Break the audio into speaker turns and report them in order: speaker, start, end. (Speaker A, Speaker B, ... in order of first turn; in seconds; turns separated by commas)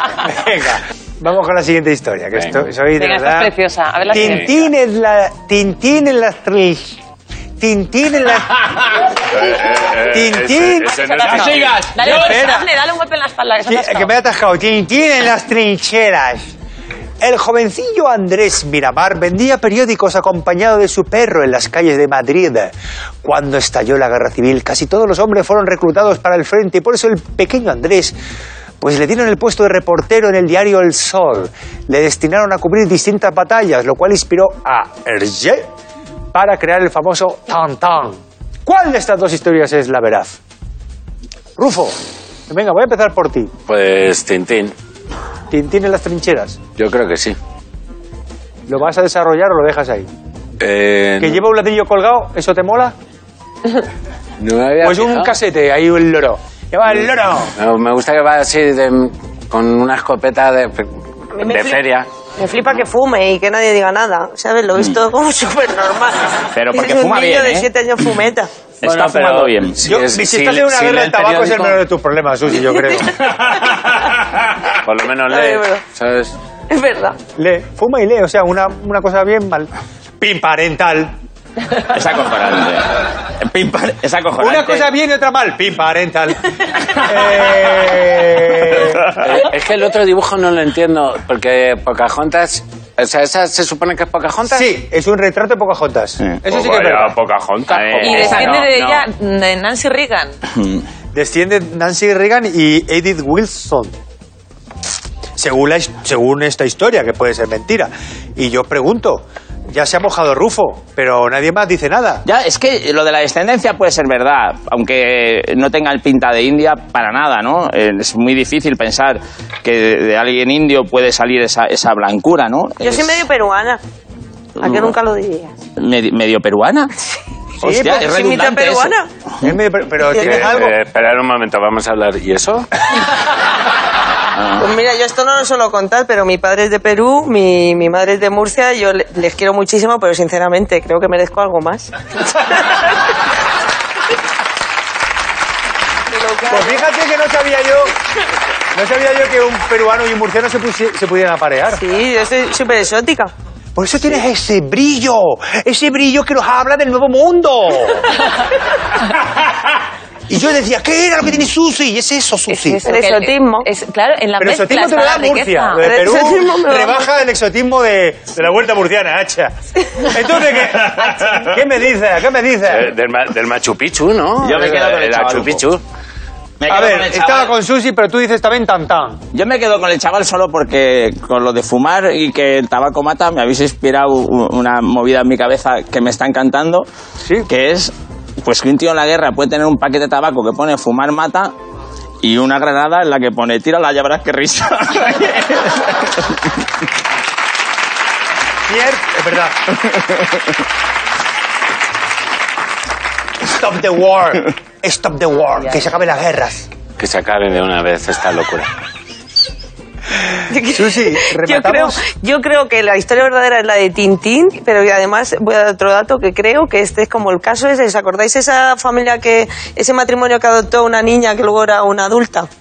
Speaker A: 0.1-3.5, Speaker B: 3.0-4.6, Speaker A: 4.1-7.0, Speaker C: 4.1-4.4, Speaker A: 7.6-8.8, Speaker C: 9.3-11.9, Speaker A: 10.1-12.7, Speaker B: 10.9-14.1, Speaker D: 11.6-12.1, Speaker A: 13.7-16.5, Speaker A: 17.2-28.1, Speaker A: 28.8-35.7, Speaker A: 36.3-40.4, Speaker A: 41.6-42.0, Speaker A: 42.5-43.5, Speaker C: 43.7-44.7, Speaker A: 45.5-46.6, Speaker C: 46.8-47.4, Speaker A: 48.7-50.1, Speaker C: 50.6-51.4, Speaker A: 51.2-52.9, Speaker C: 54.4-55.3, Speaker A: 54.8-57.5, Speaker C: 57.6-62.1, Speaker E: 61.4-61.8, Speaker E: 62.4-68.5, Speaker D: 66.5-67.7, Speaker D: 68.8-69.8, Speaker C: 68.8-71.8, Speaker A: 69.8-73.2, Speaker C: 74.7-76.3, Speaker E: 75.3-75.8, Speaker E: 76.7-77.2, Speaker A: 77.4-81.2, Speaker D: 81.8-84.9, Speaker A: 84.4-89.1, Speaker C: 89.2-94.7, Speaker A: 94.5-97.2, Speaker C: 96.5-98.7, Speaker D: 97.7-99.0, Speaker A: 97.7-98.5, Speaker B: 98.0-100.4, Speaker A: 101.1-104.0, Speaker A: 105.4-112.2, Speaker D: 112.2-123.2, Speaker E: 122.8-123.8, Speaker D: 124.6-124.9, Speaker E: 124.6-125.5, Speaker D: 125.8-126.9, Speaker D: 127.6-129.5, Speaker A: 127.6-128.1, Speaker E: 127.8-129.1, Speaker A: 129.4-130.8, Speaker E: 130.1-130.6, Speaker C: 130.2-132.7, Speaker D: 134.4-134.7, Speaker E: 134.6-141.9, Speaker E: 146.1-146.8, Speaker A: 146.5-147.9, Speaker A: 148.7-151.8, Speaker E: 151.7-153.3, Speaker A: 153.8-158.2, Speaker A: 159.2-159.7, Speaker A: 160.3-162.8, Speaker B: 162.5-165.9, Speaker E: 162.8-163.7, Speaker A: 164.4-172.9, Speaker E: 165.8-167.0, Speaker C: 172.7-175.8, Speaker D: 174.4-175.6, Speaker D: 176.6-177.5, Speaker A: 176.7-179.2, Speaker D: 179.3-186.9, Speaker A: 187.2-187.5, Speaker D: 187.5-191.5, Speaker D: 192.2-196.4, Speaker A: 198.7-199.6, Speaker A: 203.4-206.7, Speaker C: 207.0-208.7, Speaker E: 210.5-222.5, Speaker A: 210.6-212.0